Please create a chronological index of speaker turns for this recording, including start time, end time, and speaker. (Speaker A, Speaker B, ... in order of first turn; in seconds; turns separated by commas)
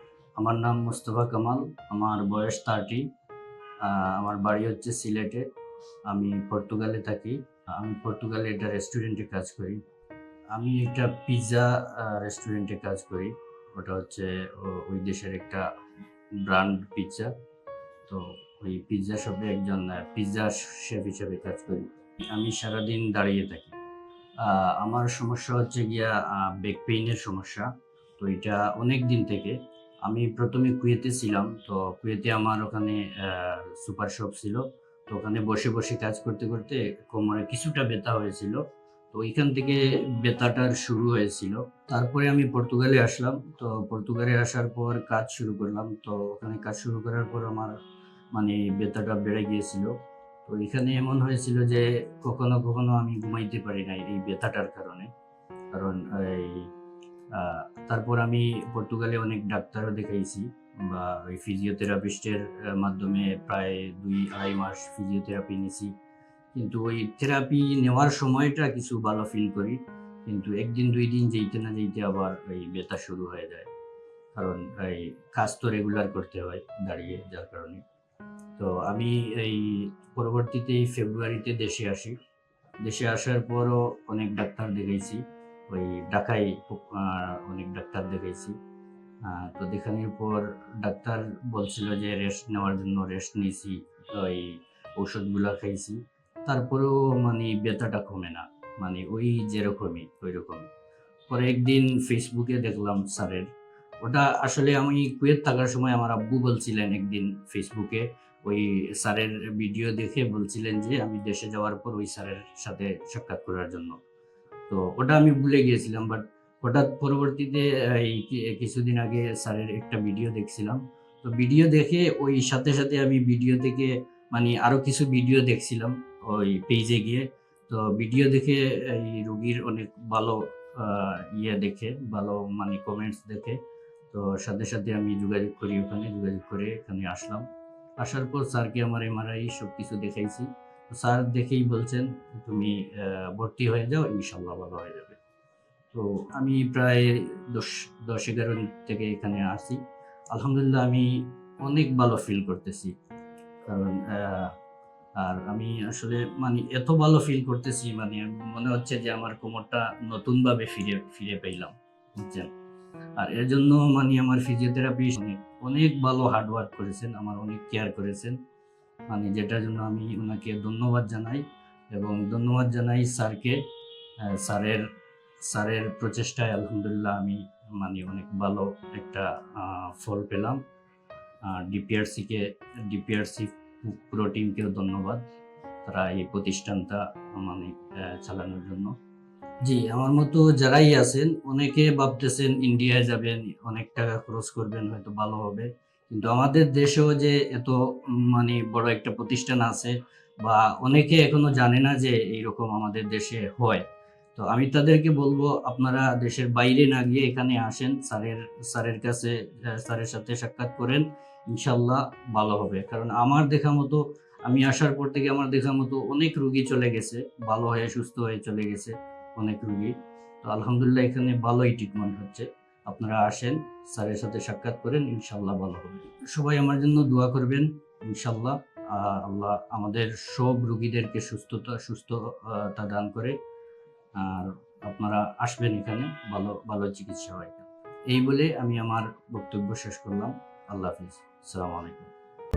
Speaker A: 0.4-3.1, Speaker A: 3.8-5.5, Speaker A: 6.1-9.8, Speaker A: 10.5-15.6, Speaker A: 16.4-17.3, Speaker A: 18.1-23.8, Speaker A: 24.4-27.7, Speaker A: 28.2-47.7, Speaker A: 48.3-49.9, Speaker A: 50.5-55.1, Speaker A: 55.7-56.7, Speaker A: 57.3-65.9, Speaker A: 66.5-73.7, Speaker A: 74.3-77.8, Speaker A: 78.6-82.2, Speaker A: 82.8-88.5, Speaker A: 89.2-100.7, Speaker A: 101.3-103.5, Speaker A: 104.0-114.0, Speaker A: 114.7-133.6, Speaker A: 134.1-137.4, Speaker A: 138.0-145.2, Speaker A: 145.9-149.8, Speaker A: 150.3-152.9, Speaker A: 153.7-154.5, Speaker A: 155.2-162.5, Speaker A: 163.2-168.4, Speaker A: 169.1-173.6, Speaker A: 174.3-174.8, Speaker A: 175.5-180.6, Speaker A: 181.5-185.2, Speaker A: 185.9-188.9, Speaker A: 189.6-203.8, Speaker A: 204.4-233.4, Speaker A: 234.2-242.1